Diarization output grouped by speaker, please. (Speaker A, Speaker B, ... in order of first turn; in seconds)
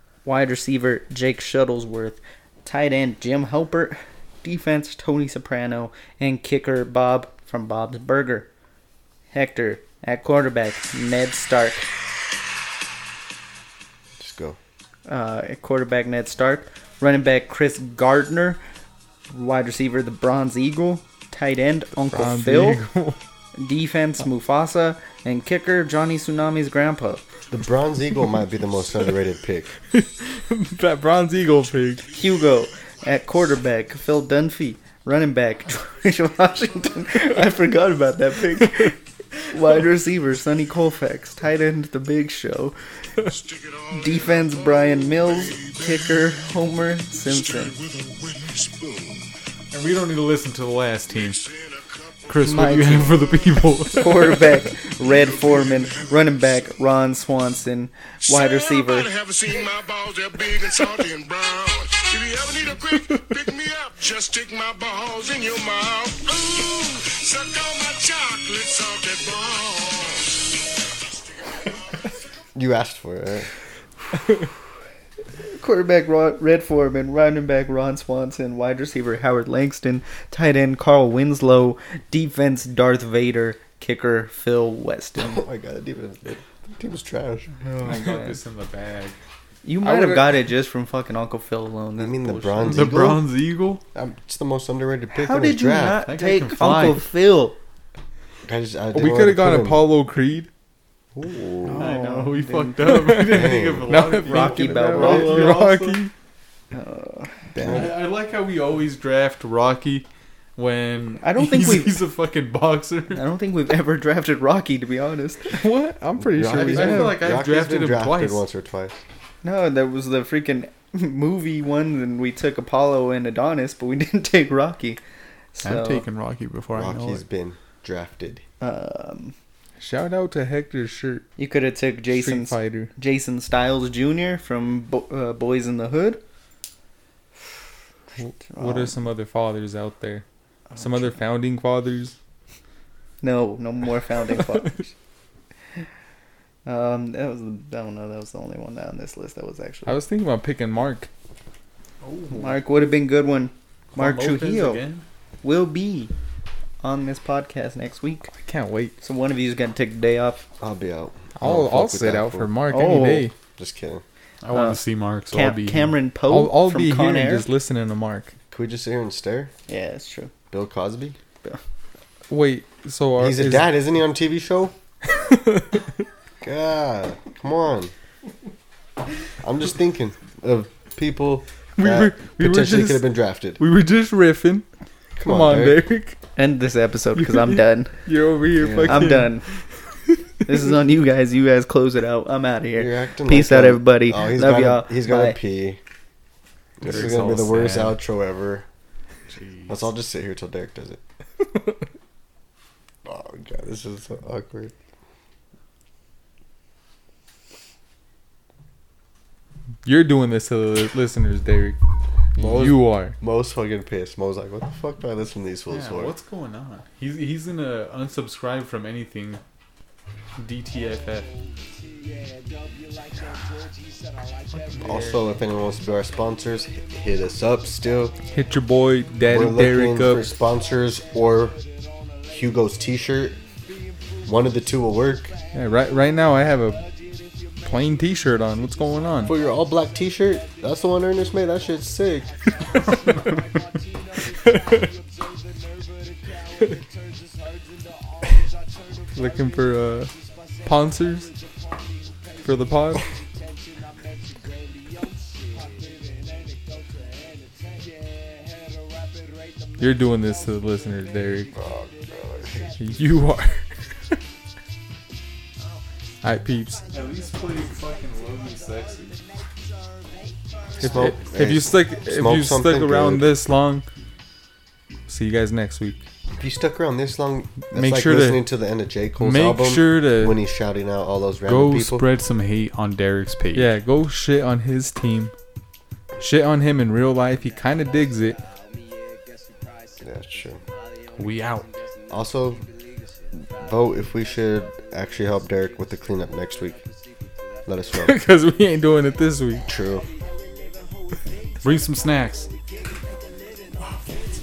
Speaker A: 0.2-8.5, 9.3-11.9, 15.1-18.6, 19.3-22.8, 23.6-27.3, 32.1-42.8, 43.9-47.7, 52.4-53.2, 53.9-59.1, 75.5-85.4, 87.6-88.4, 89.6-92.9, 95.1-97.6, 101.6-103.1, 104.2-105.7, 106.7-107.4, 111.2-112.0, 113.1-115.5, 119.4-125.0, 125.5-126.0, 128.6-129.3, 131.4-136.2, 138.5-138.9, 140.7-141.1, 143.2-144.9, 146.7-150.0, 152.3-154.8, 155.4-156.1, 156.8-158.3, 159.0-160.4, 162.7-163.3, 164.5-167.5, 169.7-170.3, 186.3-188.0, 188.9-189.4, 190.4-195.4
Speaker B: 14.2-14.6, 27.5-29.7, 72.5-73.5, 85.2-87.5, 92.0-93.3, 93.9-96.0, 98.5-99.8, 101.2-101.8, 103.3-103.9, 107.6-107.9, 116.2-119.0, 126.7-128.4, 160.6-162.6, 163.6-164.0, 168.5-169.5, 170.5-171.2, 173.2-174.7, 176.4-177.9, 179.4-183.6, 185.2-185.8, 188.6-189.2, 192.8-195.8, 196.8-198.7, 199.7-201.0, 203.0-204.7, 212.4-216.1, 224.8-228.1, 229.2-231.6, 232.3-233.4, 234.2-235.3, 239.2-242.3, 261.5-262.7, 270.8-273.3, 276.4-282.1, 290.0-290.6, 292.1-292.6, 293.3-296.8, 297.6-298.1, 299.6-300.1
Speaker C: 22.1-23.2, 29.9-32.1, 89.8-90.3, 98.9-100.5, 102.9-106.1, 107.5-107.9, 115.5-117.2, 129.8-131.2, 132.1-132.9, 138.2-140.2, 140.8-142.1, 149.9-151.1, 158.4-158.9, 161.3-163.3, 166.3-168.3, 172.3-173.7, 175.1-175.8, 181.8-183.1, 183.6-184.7, 185.2-186.2, 187.1-189.3, 209.8-211.8, 212.4-213.2, 228.3-230.3, 235.5-236.8, 237.6-239.3, 244.4-244.8, 249.1-250.1, 250.6-251.3, 252.4-253.1, 259.8-261.5, 262.8-264.2, 266.2-266.8, 270.8-273.9, 275.1-276.0, 277.7-278.4, 279.2-280.4, 283.5-285.3, 286.2-288.4, 298.0-299.6
Speaker D: 43.2-46.4, 47.2-49.2, 51.1-53.9, 54.9-56.7, 58.2-70.8
Speaker E: 49.7-51.4, 52.3-54.5, 87.8-89.2, 92.7-93.8, 96.0-97.1, 101.7-106.0, 107.6-110.0, 110.5-113.3, 116.5-118.4, 125.6-127.2, 152.0-152.8, 153.9-155.0, 164.4-166.0, 196.8-198.0, 199.3-199.9, 215.7-219.4, 220.4-221.3, 224.5-225.3, 242.7-243.5, 266.9-269.2, 281.4-283.7, 291.1-291.7, 301.6-302.5